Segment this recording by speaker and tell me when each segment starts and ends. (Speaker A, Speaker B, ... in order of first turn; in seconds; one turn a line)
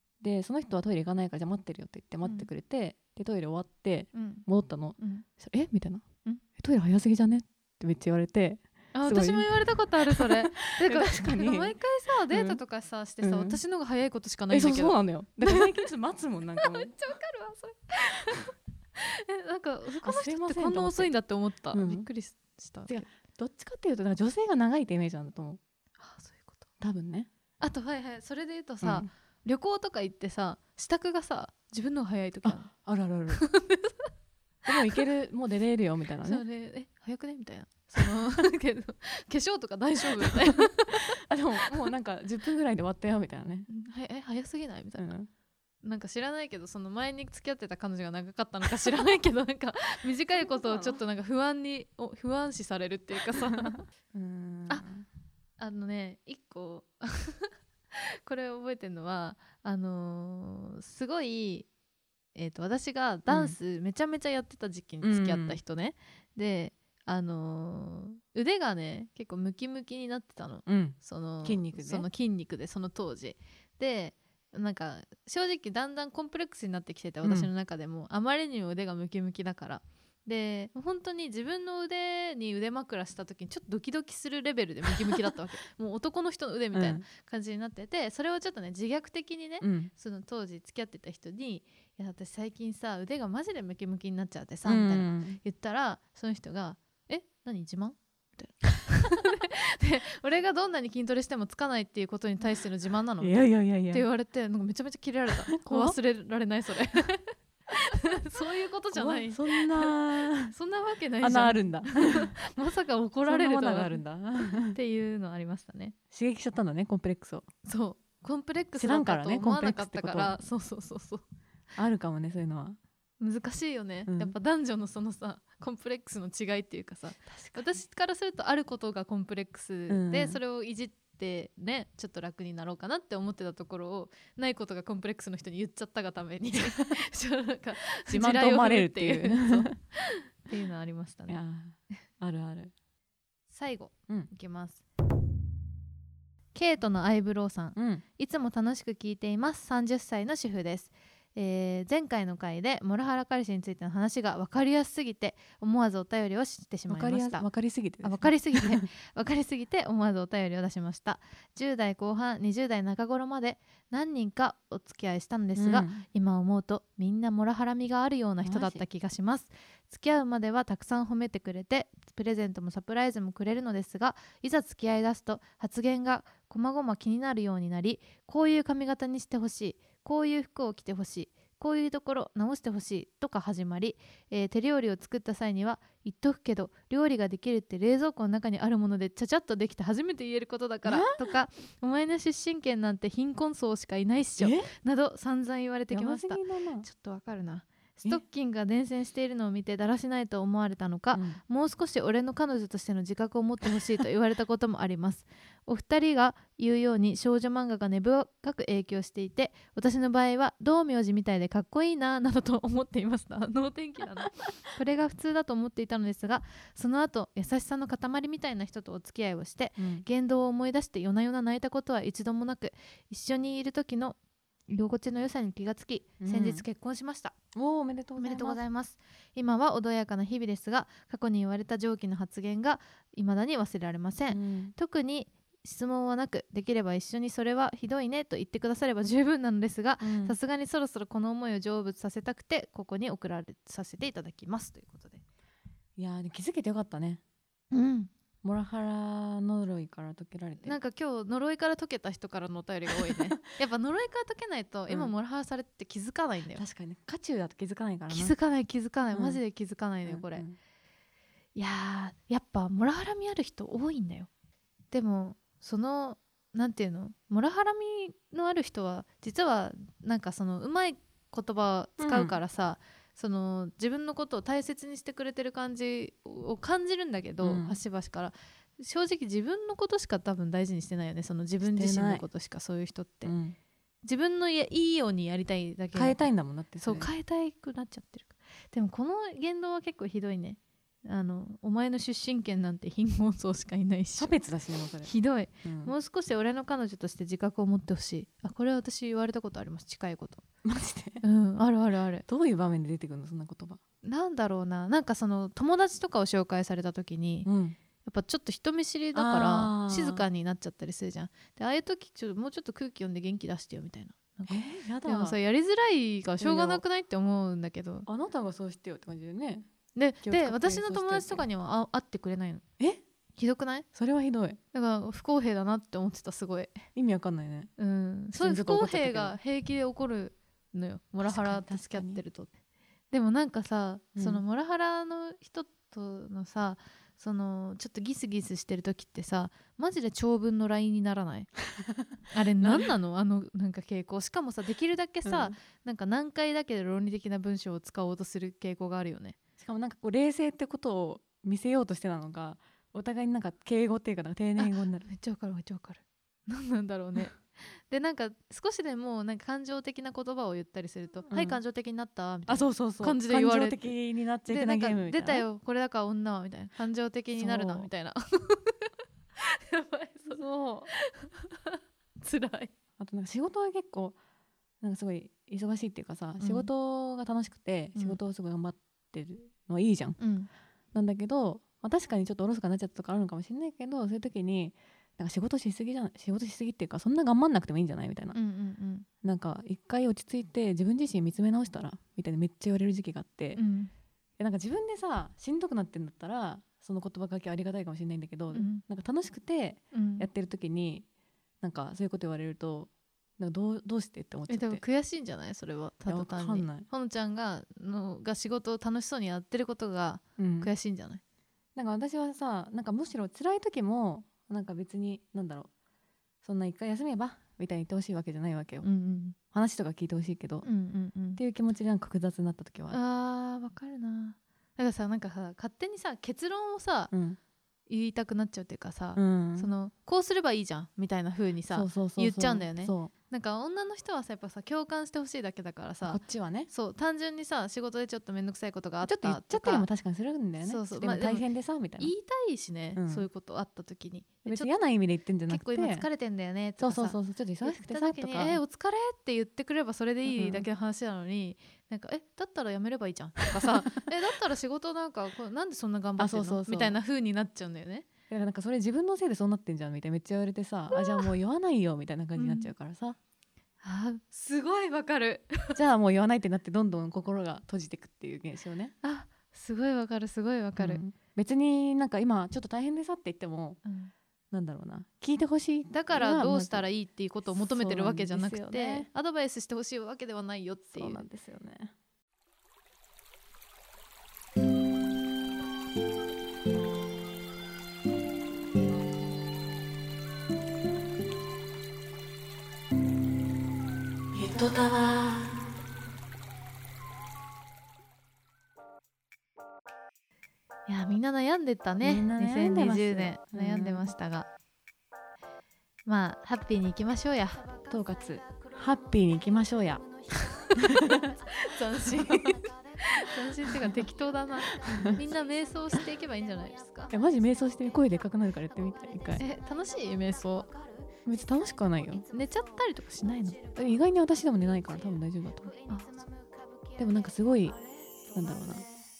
Speaker A: 0.2-6.0
Speaker B: 4.1-4.4
Speaker B: 5.0-5.2
Speaker A: 6.6-9.5
Speaker B: 8.9-15.8
Speaker A: 10.1-11.8
Speaker A: 12.3-12.6
Speaker A: 13.2-13.6
Speaker A: 14.5-16.9
Speaker B: 16.6-23.1
Speaker A: 20.0-21.1
Speaker A: 21.7-22.1
Speaker A: 22.9-25.6
Speaker B: 26.0-26.7
Speaker A: 26.8-27.3
Speaker B: 27.6-32.7
Speaker A: 28.8-29.1
Speaker A: 32.4-33.4
Speaker B: 33.3-34.1
Speaker A: 34.6-36.4
Speaker B: 36.2-41.1
Speaker A: 41.2-43.7
Speaker B: 43.7-45.1
Speaker A: 45.0-45.3
Speaker B: 45.8-53.8
Speaker A: 50.4-51.0
Speaker A: 53.6-55.0
Speaker B: 55.6-61.7
Speaker B: 62.3-107.3
Speaker A: 63.3-63.5
Speaker A: 65.0-65.6
Speaker A: 70.7-72.1
Speaker A: 77.2-77.5
Speaker A: 86.7-87.0
Speaker A: 89.6-89.9
Speaker A: 94.6-95.4
Speaker A: 103.2-104.0
Speaker A: 105.5-106.0
Speaker B: 107.9-109.9
Speaker A: 108.9-110.5
Speaker B: 110.5-114.0
Speaker A: 111.2-112.4
Speaker A: 113.2-114.8
Speaker B: 114.7-115.9
Speaker A: 116.1-117.5
Speaker B: 117.6-121.2
Speaker A: 118.8-120.4
Speaker A: 121.7-122.8
Speaker B: 123.2-141.4
Speaker A: 124.1-124.3
Speaker A: 127.3-127.7
Speaker A: 129.9-130.4
Speaker A: 138.1-139.7
Speaker A: 141.3-142.7
Speaker B: 143.5-144.8
Speaker B: 146.5-157.4
Speaker A: 147.8-148.0
Speaker A: 156.9-158.9
Speaker B: 158.0-224.2
Speaker A: 165.6-166.0
Speaker A: 168.4-168.8
Speaker A: 190.8-191.3
Speaker A: 194.4-194.7
Speaker A: 195.9-196.9
Speaker A: 201.1-201.4
Speaker A: 219.8-220.1
Speaker B: 224.7-227.3
Speaker A: 226.2-226.6
Speaker A: 227.6-228.6
Speaker B: 228.2-245.2
Speaker A: 234.3-234.7
Speaker A: 240.0-240.3
Speaker A: 245.9-247.2
Speaker B: 247.7-248.1
Speaker A: 248.4-250.8
Speaker B: 250.6-256.6
Speaker A: 252.9-253.2
Speaker A: 256.6-258.3
Speaker B: 258.1-260.4
Speaker A: 259.1-259.4
Speaker A: 260.1-260.6
Speaker B: 261.6-264.3
Speaker B: 264.9-283.3
Speaker A: 272.0-272.4
Speaker A: 277.4-277.8
Speaker A: 281.6-282.2
Speaker A: 283.2-283.6
Speaker B: 284.1-286.2
Speaker A: 285.9-287.1
Speaker B: 286.8-294.3
Speaker A: 294.2-295.9
Speaker B: 295.0-300.4
Speaker A: 300.6-301.2
Speaker B: 301.2-302.2
Speaker A: 302.2-303.8
Speaker B: 304.0-307.5
Speaker A: 307.4-307.8
Speaker B: 308.0-318.1
Speaker A: 309.1-310.2
Speaker A: 314.5-315.4
Speaker A: 316.4-316.8
Speaker A: 318.1-319.7
Speaker B: 319.9-322.6
Speaker A: 320.2-321.4
Speaker B: 323.4-323.9
Speaker A: 323.9-324.6
Speaker B: 324.7-326.8
Speaker A: 326.9-327.7
Speaker B: 327.8-332.5
Speaker A: 328.3-329.4
Speaker A: 331.2-332.2
Speaker B: 333.1-341.5
Speaker A: 334.1-334.4
Speaker B: 342.3-349.4
Speaker A: 342.6-342.9
Speaker A: 345.2-345.6
Speaker A: 349.6-355.1
Speaker B: 354.6-363.9
Speaker A: 361.3-361.6
Speaker A: 362.5-365.4
Speaker B: 364.4-368.8
Speaker A: 367.3-367.9
Speaker B: 369.4-372.7
Speaker A: 370.3-370.9
Speaker A: 373.0-374.2
Speaker A: 374.8-380.2
Speaker B: 376.4-376.7
Speaker B: 380.2-380.5
Speaker A: 380.9-388.4
Speaker B: 388.3-389.1
Speaker A: 389.2-393.6
Speaker B: 393.6-393.9
Speaker A: 394.4-401.1
Speaker B: 398.5-398.8
Speaker B: 399.9-400.3
Speaker A: 401.6-404.8
Speaker B: 404.5-411.2
Speaker A: 406.1-406.9
Speaker A: 410.4-410.7
Speaker A: 411.7-415.7
Speaker A: 416.4-418.9
Speaker B: 418.8-419.4
Speaker A: 419.5-420.7
Speaker B: 420.6-421.4
Speaker A: 421.4-423.0
Speaker B: 422.9-427.1
Speaker A: 427.1-427.4
Speaker B: 427.9-439.9
Speaker A: 429.1-429.7
Speaker A: 431.7-433.1
Speaker A: 436.0-436.7
Speaker A: 439.0-442.1
Speaker B: 440.6-441.4
Speaker B: 442.0-444.7
Speaker A: 442.9-443.2
Speaker A: 444.4-446.1
Speaker B: 445.5-458.1
Speaker A: 446.8-448.6
Speaker A: 450.3-450.7
Speaker A: 456.2-457.0
Speaker A: 458.3-463.2
Speaker B: 462.4-462.7
Speaker B: 463.8-465.8
Speaker A: 465.7-468.9
Speaker B: 469.0-471.0
Speaker A: 470.8-473.8
Speaker B: 473.8-474.1
Speaker A: 474.5-476.8
Speaker B: 475.9-481.2
Speaker A: 477.5-479.1
Speaker A: 480.9-481.9
Speaker A: 494.3-495.6
Speaker B: 500.9-504.5
Speaker A: 502.0-504.1
Speaker B: 506.1-507.7
Speaker A: 507.9-510.1
Speaker B: 510.4-511.0
Speaker A: 510.8-511.4
Speaker B: 511.5-517.1
Speaker A: 512.0-512.6
Speaker A: 514.9-515.2
Speaker A: 517.1-519.4
Speaker B: 519.4-520.7
Speaker A: 521.2-522.2
Speaker B: 522.3-523.6
Speaker A: 523.7-525.8
Speaker B: 525.9-526.2
Speaker A: 527.0-528.9